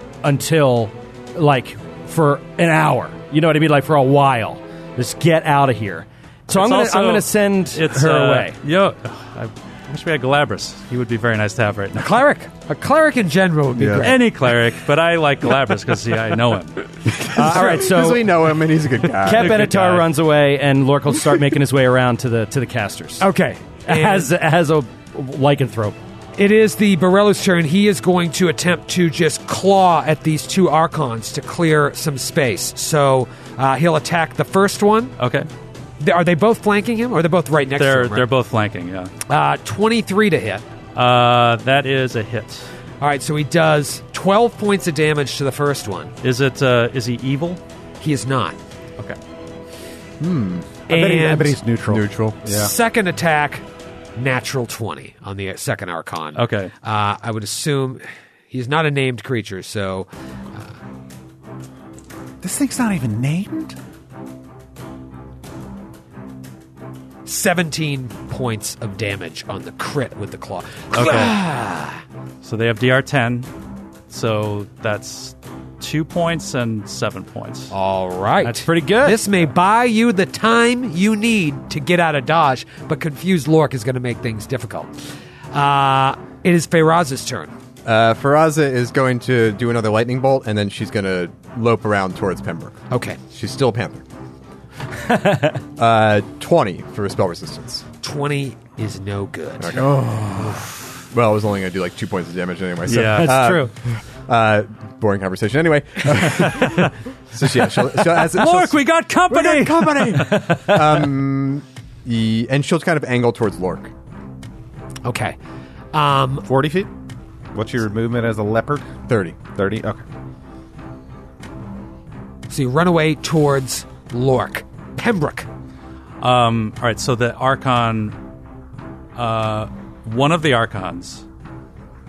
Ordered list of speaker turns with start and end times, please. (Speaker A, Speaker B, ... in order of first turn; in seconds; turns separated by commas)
Speaker A: 0.2-8.6, Speaker B: 6.5-12.2, Speaker C: 11.9-14.3, Speaker D: 13.8-14.1, Speaker B: 14.0-16.8, Speaker D: 17.2-19.7, Speaker A: 17.2-18.4, Speaker A: 19.2-23.3, Speaker B: 19.3-20.1, Speaker C: 23.2-24.3, Speaker A: 23.9-26.0, Speaker C: 26.4-35.1, Speaker B: 35.2-35.5, Speaker C: 36.0-38.3, Speaker B: 37.8-39.1, Speaker C: 39.3-40.6, Speaker B: 40.9-42.7, Speaker C: 43.0-46.1, Speaker B: 46.2-47.6, Speaker C: 48.0-48.6, Speaker D: 50.2-50.8, Speaker C: 50.9-51.6, Speaker E: 50.9-52.7, Speaker D: 51.9-52.4, Speaker C: 52.4-53.6, Speaker C: 54.1-60.7, Speaker B: 56.4-56.7, Speaker E: 62.4-63.8, Speaker C: 67.2-72.0, Speaker B: 70.9-71.4, Speaker B: 72.4-73.5, Speaker B: 74.1-77.7, Speaker C: 77.7-84.9, Speaker A: 78.4-79.2, Speaker C: 85.5-87.5, Speaker D: 87.8-94.0, Speaker C: 92.9-93.2, Speaker A: 95.0-95.6, Speaker D: 95.8-97.8, Speaker C: 98.0-99.8, Speaker D: 99.6-100.5, Speaker E: 99.8-100.5, Speaker D: 101.1-113.9, Speaker B: 102.8-103.5, Speaker A: 102.9-103.7, Speaker B: 108.2-110.5, Speaker A: 110.3-110.8, Speaker C: 115.0-115.4, Speaker C: 115.9-116.5, Speaker E: 116.5-116.9, Speaker E: 117.5-118.9, Speaker D: 119.1-119.4, Speaker E: 119.5-120.0, Speaker C: 122.5-125.5, Speaker B: 126.2-128.2, Speaker B: 129.2-131.2